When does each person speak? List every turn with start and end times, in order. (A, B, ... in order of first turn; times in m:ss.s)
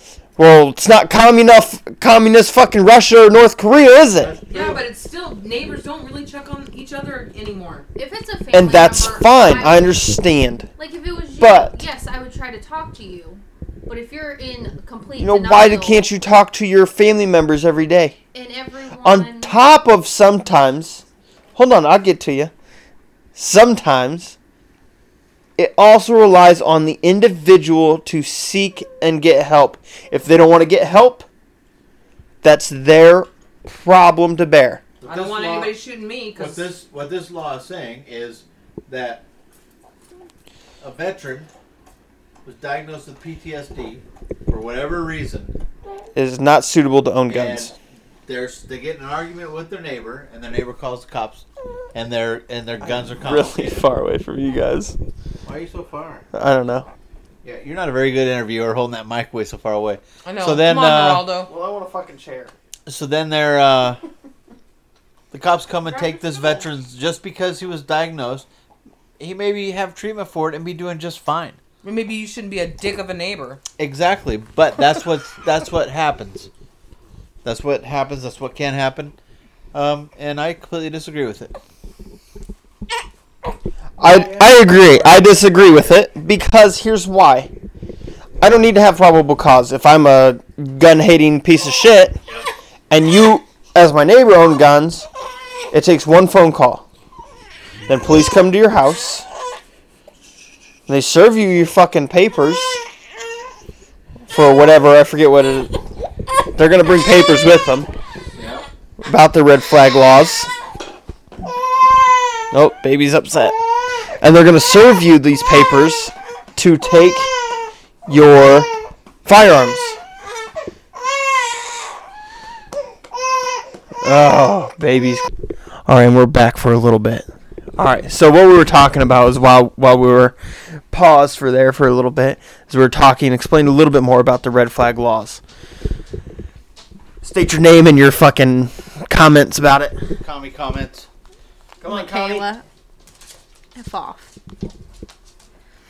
0:00.4-0:04.4 A
0:04.2-0:04.9 B
0:04.5-0:07.9 C
0:08.0-0:10.0 D
0:08.5-0:10.7 A
0:10.8-0:16.1 D
0:11.4-0:11.8 A
0:15.2-0:18.2 A
0:18.3-0:19.6 D
0:19.0-0:21.0 A
0:21.6-0:22.5 A
0:23.4-0:24.4 A
0:25.6-0:31.3 A
0:32.4-0:34.8 A
0:35.0-0:35.8 B
0:35.0-0:36.7 C
0:36.4-0:39.2 B
0:40.8-0:41.5 B
0:42.4-0:45.6 B
0:46.2-0:47.7 A
0:47.3-0:47.8 B
0:48.3-0:53.8 B
0:53.1-0:55.0 A
0:55.4-0:56.2 B
0:56.3-0:56.9 A
0:57.4-1:01.3 B
1:00.2-1:01.5 C
1:01.4-1:02.5 A
1:02.9-1:04.0 B
1:05.3-1:08.5 B
1:05.9-1:06.6 D
1:09.2-1:11.6 B
1:11.8-1:13.6 C
1:13.8-1:16.5 B
1:17.4-1:19.2 B
1:19.7-1:21.5 B
1:24.0-1:27.5 A
1:24.0-1:25.4 B
1:28.4-1:32.2 A
1:32.9-1:35.1 A
1:35.7-1:36.8 A
1:37.9-1:39.3 A
1:40.9-1:42.8 A
1:44.3-1:45.8 A
1:46.6-1:47.9 A
1:48.4-1:48.7 B
1:49.0-1:50.5 A
1:52.5-1:53.6 A
1:54.2-1:57.3 A
1:58.1-1:58.7 A
1:59.2-2:00.0 A
2:04.0-2:05.3 A
2:05.9-2:07.3 A
2:07.8-2:10.4 A
2:10.9-2:15.4 A
2:17.2-2:20.0 A
2:20.2-2:21.1 B
2:21.8-2:22.5 A
2:21.8-2:22.6 D
2:23.8-2:24.3 D